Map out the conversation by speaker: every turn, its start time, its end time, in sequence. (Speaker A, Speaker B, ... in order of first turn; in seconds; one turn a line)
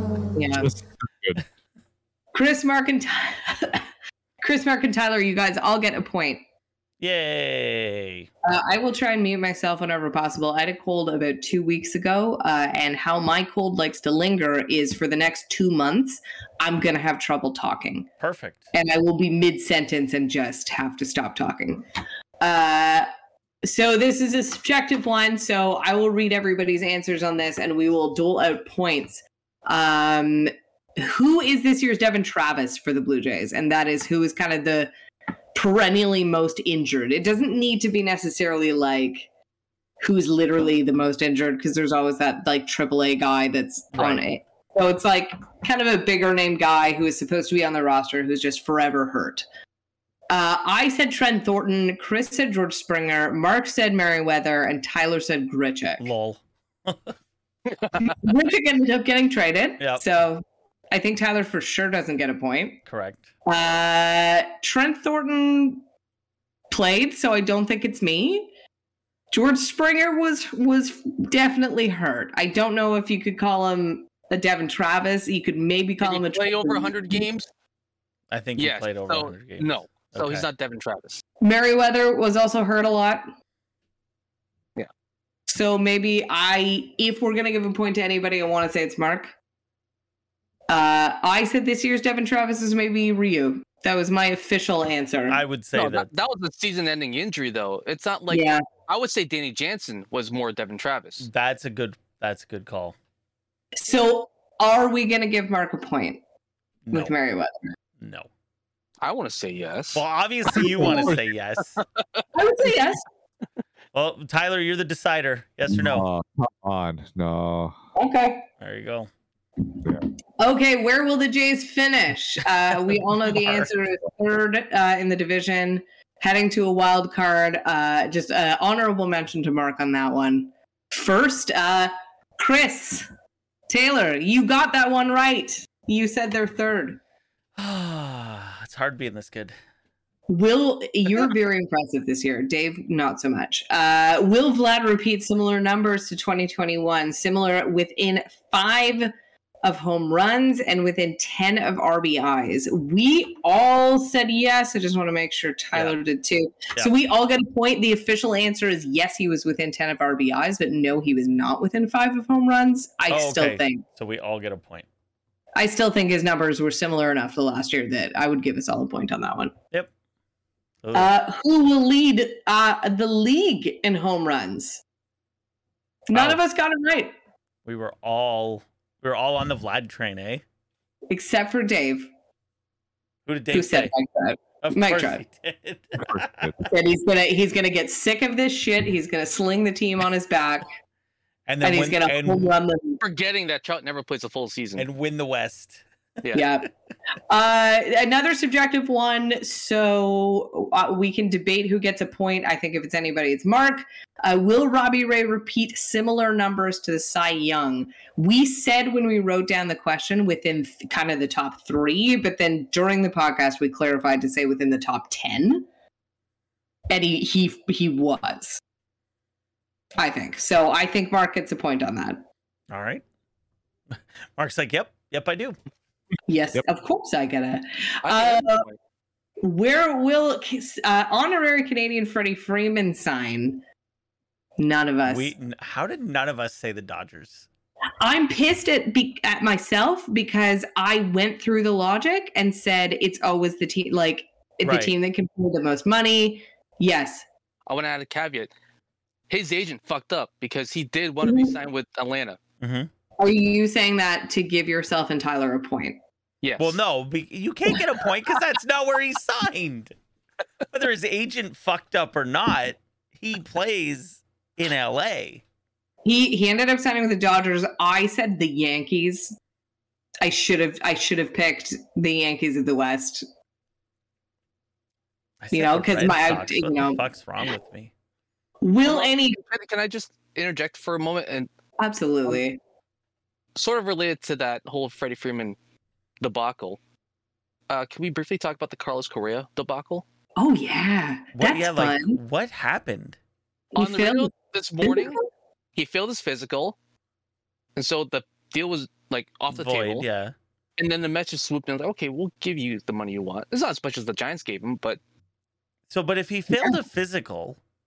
Speaker A: 0.3-0.7
Speaker B: 0.6-1.4
Speaker A: 2.3-3.8
Speaker A: 4.4-6.4
Speaker C: 7.0-8.3
Speaker A: 8.4-18.1
Speaker C: 18.2-18.6
Speaker A: 18.7-21.8
Speaker A: 22.4-23.1
Speaker A: 23.6-34.9
Speaker A: 35.5-39.3
Speaker A: 40.0-49.5
Speaker C: 44.0-44.2
Speaker A: 50.3-56.1
Speaker C: 56.0-57.1
Speaker D: 57.7-58.0
Speaker A: 58.0-62.8
Speaker C: 62.9-63.3
Speaker A: 63.5-65.8
Speaker A: 66.7-68.5
Speaker A: 69.3-77.3
Speaker D: 76.0-77.5
Speaker C: 78.3-80.5
Speaker D: 78.6-81.2
Speaker A: 81.4-83.3
Speaker A: 85.5-89.3
Speaker A: 90.7-95.4
Speaker C: 95.3-96.1
Speaker D: 95.8-101.3
Speaker A: 98.3-98.6
Speaker C: 101.2-103.0
Speaker A: 103.8-106.2
Speaker C: 106.9-107.1
Speaker A: 106.9-107.8
Speaker C: 108.0-108.3
Speaker D: 109.0-110.0
Speaker C: 110.0-111.8
Speaker D: 110.5-111.2
Speaker D: 111.8-112.2
Speaker A: 112.3-113.0
Speaker C: 113.9-116.1
Speaker B: 115.7-117.8
Speaker A: 118.0-118.5
Speaker C: 118.6-119.1
Speaker A: 120.4-133.1
Speaker A: 133.7-137.0
Speaker C: 137.6-139.5
Speaker A: 140.3-149.1
Speaker A: 149.6-163.8
Speaker C: 163.1-164.9
Speaker A: 165.6-169.5
Speaker C: 170.8-171.1
Speaker A: 170.9-174.8
Speaker A: 176.1-177.1
Speaker C: 176.1-176.4
Speaker C: 177.7-180.4
Speaker A: 181.1-182.1
Speaker C: 183.3-183.9
Speaker A: 183.5-185.2
Speaker C: 184.6-186.5
Speaker B: 186.0-186.6
Speaker A: 186.7-190.7
Speaker C: 191.5-192.5
Speaker A: 191.6-193.0
Speaker D: 193.0-194.9
Speaker C: 194.8-195.8
Speaker A: 196.3-196.7
Speaker A: 197.3-215.7
Speaker A: 216.9-218.6
Speaker A: 220.0-222.2
Speaker C: 222.7-223.0
Speaker C: 224.4-225.6
Speaker A: 226.3-228.7
Speaker D: 228.0-228.8
Speaker A: 229.4-233.6
Speaker A: 234.6-235.3
Speaker C: 235.1-237.5
Speaker A: 238.0-247.2
Speaker C: 244.6-244.9
Speaker D: 247.7-248.5
Speaker D: 249.3-252.4
Speaker A: 251.2-251.6
Speaker C: 252.6-252.9
Speaker A: 253.2-256.0
Speaker D: 256.4-256.8
Speaker C: 256.6-259.9
Speaker C: 260.7-265.4
Speaker A: 266.1-269.4
Speaker A: 270.2-273.2
Speaker C: 275.4-277.9
Speaker A: 275.5-277.0
Speaker A: 278.6-279.4
Speaker D: 278.9-281.5
Speaker A: 281.8-282.6
Speaker D: 283.6-285.6
Speaker D: 286.2-286.8
Speaker D: 287.7-290.1
Speaker A: 290.4-292.2
Speaker C: 291.4-293.2
Speaker A: 293.7-294.3
Speaker D: 293.8-295.2
Speaker A: 294.8-295.2
Speaker D: 295.8-296.8
Speaker D: 297.8-300.1
Speaker C: 299.5-300.4
Speaker D: 300.8-305.0
Speaker C: 305.9-307.6